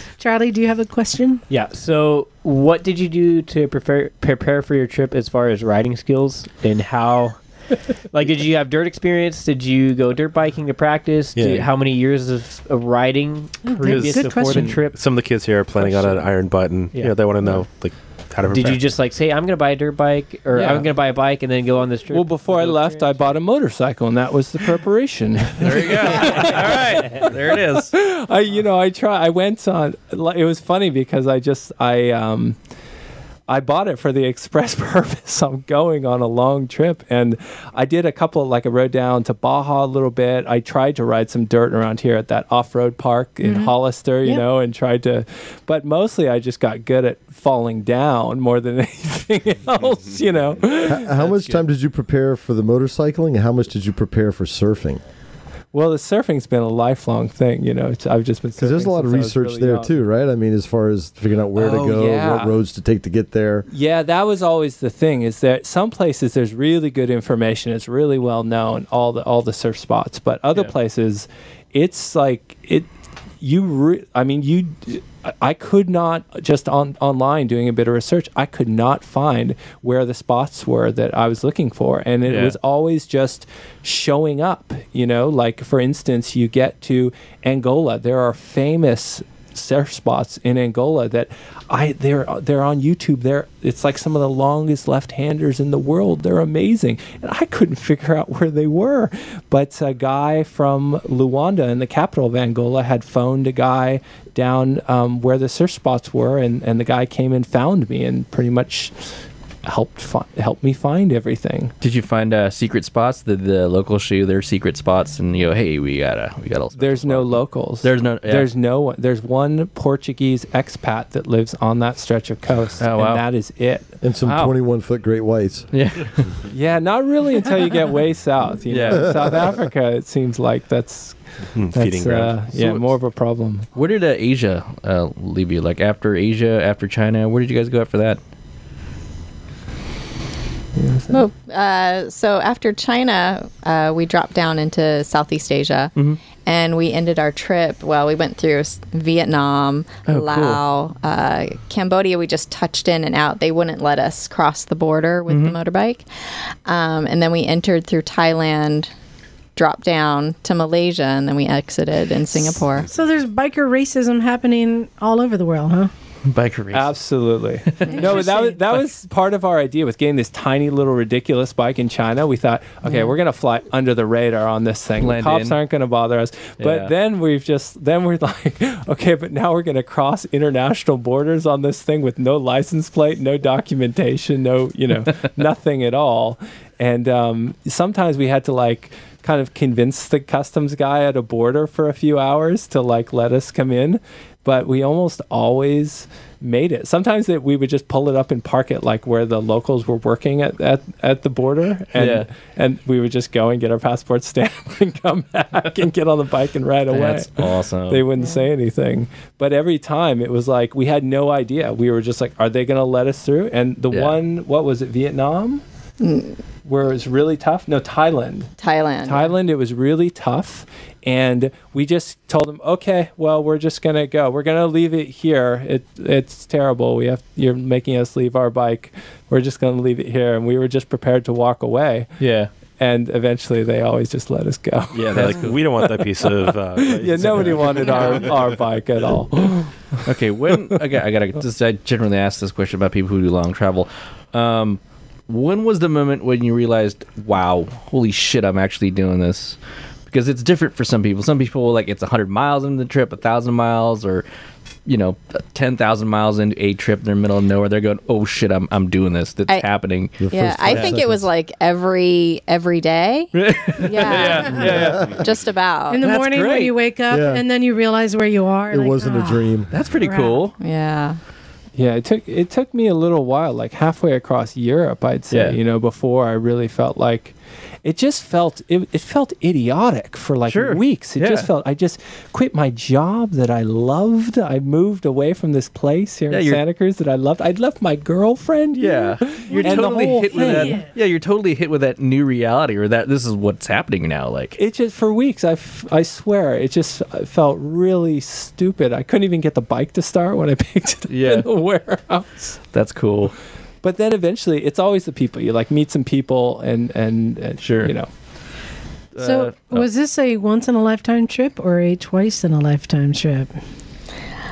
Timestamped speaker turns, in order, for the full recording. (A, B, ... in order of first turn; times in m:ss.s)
0:00.2-0:01.4 A
0:01.5-0:07.4 B
0:08.1-0:15.0 B
0:11.4-0:11.7 C
0:13.6-0:14.8 A
0:13.8-0:18.9 C
0:15.7-0:16.2 B
0:16.9-0:17.6 B
0:18.5-0:23.4 B
0:20.6-0:20.8 D
0:20.6-0:20.8 E
0:22.1-0:32.6 D
0:25.6-0:27.9 E
0:33.5-0:51.1 D
0:43.4-0:43.7 A
0:50.8-0:55.0 F
0:51.2-0:51.6 E
0:55.7-0:59.9 D
0:58.6-1:03.7 F
1:01.6-1:02.6 D
1:03.7-1:12.9 D
1:13.4-1:49.1 D
1:22.3-1:22.6 E
1:49.6-1:51.7 D
1:51.8-1:58.5 E
1:56.8-2:04.5 D
2:02.8-2:03.2 E
2:04.0-2:05.7 F
2:05.7-2:06.2 E
2:06.5-2:11.2 D
2:08.7-2:09.1 E
2:08.9-2:09.3 F
2:11.6-2:12.3 C
2:11.7-2:13.7 D
2:12.1-2:12.9 E
2:13.8-2:18.2 E
2:20.8-2:21.2 D
2:21.1-2:36.0 G
2:30.1-2:30.6 E
2:35.3-2:35.6 E
2:36.7-2:38.9 G
2:39.6-2:42.9 G
2:42.8-2:45.9 A
2:46.2-2:46.9 E
2:46.7-3:35.6 D
2:48.0-2:48.6 A
2:55.0-2:55.6 E
2:56.6-2:56.9 E
3:22.0-3:22.3 E
3:26.9-3:28.1 E
3:33.9-3:34.2 E
3:36.0-3:36.4 G
3:36.6-3:38.5 D
3:38.6-3:39.3 G
3:39.0-3:52.1 D
3:52.2-3:52.5 E
3:52.8-3:59.7 D
3:54.9-3:55.7 E
3:55.1-3:58.3 C
4:00.1-4:09.6 E
4:10.1-4:14.2 E
4:14.9-4:21.0 E
4:20.2-4:21.3 F
4:20.3-4:26.0 G
4:23.3-4:25.1 E
4:24.4-4:25.2 F
4:25.9-4:30.4 A
4:26.0-4:26.8 E
4:27.1-4:27.4 F
4:28.7-4:29.7 F
4:29.7-4:30.6 E
4:30.6-4:31.2 G
4:31.8-4:50.8 D
4:35.3-4:35.6 E
4:40.5-4:41.5 E
4:46.3-4:46.6 E
4:48.8-4:54.6 E
4:49.5-4:50.9 A
4:54.6-5:02.6 D
5:01.1-5:01.5 E
5:02.7-5:03.3 E
5:03.8-5:08.1 D
5:07.6-5:07.9 E
5:09.2-5:09.9 E
5:09.2-5:13.5 A